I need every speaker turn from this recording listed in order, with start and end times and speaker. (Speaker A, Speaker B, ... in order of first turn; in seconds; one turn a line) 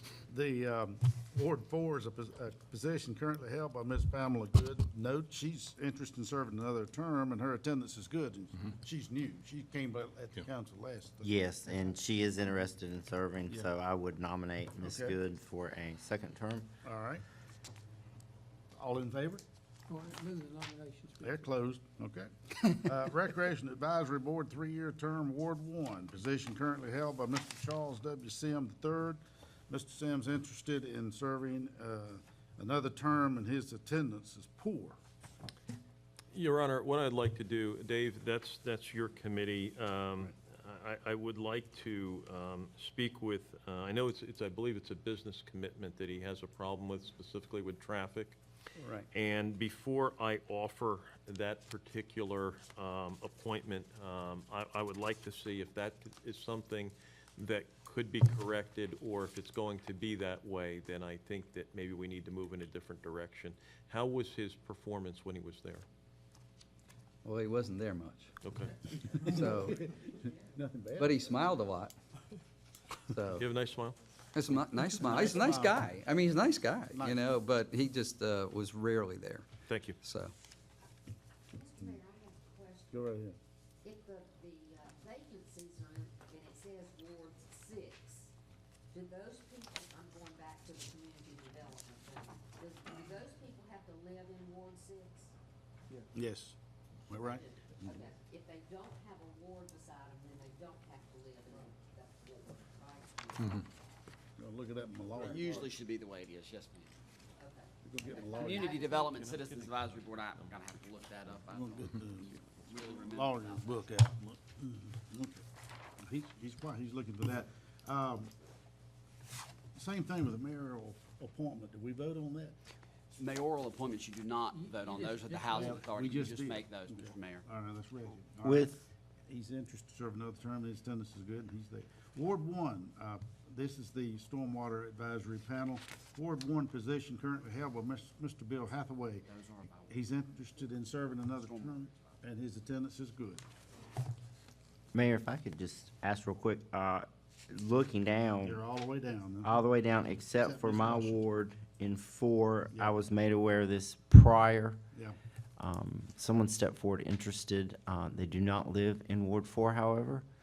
Speaker A: 0.2-11.3
Speaker B: 11.2-16.7
Speaker A: 14.8-15.2
Speaker A: 16.8-17.2
Speaker A: 18.7-19.4
Speaker C: 19.9-21.5
Speaker A: 21.2-35.0
Speaker D: 36.3-48.4
Speaker A: 48.8-49.0
Speaker D: 49.1-65.8
Speaker E: 67.2-68.3
Speaker D: 68.4-68.8
Speaker A: 69.1-71.4
Speaker E: 69.2-69.9
Speaker E: 71.0-72.0
Speaker E: 73.1-73.5
Speaker D: 73.3-74.0
Speaker E: 74.3-79.5
Speaker A: 75.0-75.9
Speaker A: 76.9-77.3
Speaker D: 79.7-80.0
Speaker E: 80.0-80.3
Speaker F: 81.5-83.1
Speaker A: 82.9-83.4
Speaker F: 83.8-88.3
Speaker F: 88.9-95.3
Speaker A: 96.1-96.6
Speaker A: 97.1-98.0
Speaker F: 97.2-103.7
Speaker A: 104.4-105.7
Speaker G: 105.3-106.9
Speaker F: 107.4-109.3
Speaker A: 107.8-108.7
Speaker D: 108.6-110.7
Speaker G: 109.3-111.9
Speaker A: 111.4-115.4
Speaker G: 112.6-113.6
Speaker A: 116.0-118.3
Speaker A: 119.8-122.6
Speaker G: 123.2-127.4
Speaker C: 124.5-126.1
Speaker A: 125.5-139.3
Speaker B: 128.4-128.8
Speaker G: 139.3-140.0
Speaker A: 139.9-143.4
Speaker G: 141.4-141.8
Speaker B: 144.9-148.6
Speaker A: 148.4-149.5
Speaker B: 149.4-154.8
Speaker A: 150.4-151.2
Speaker B: 155.6-160.3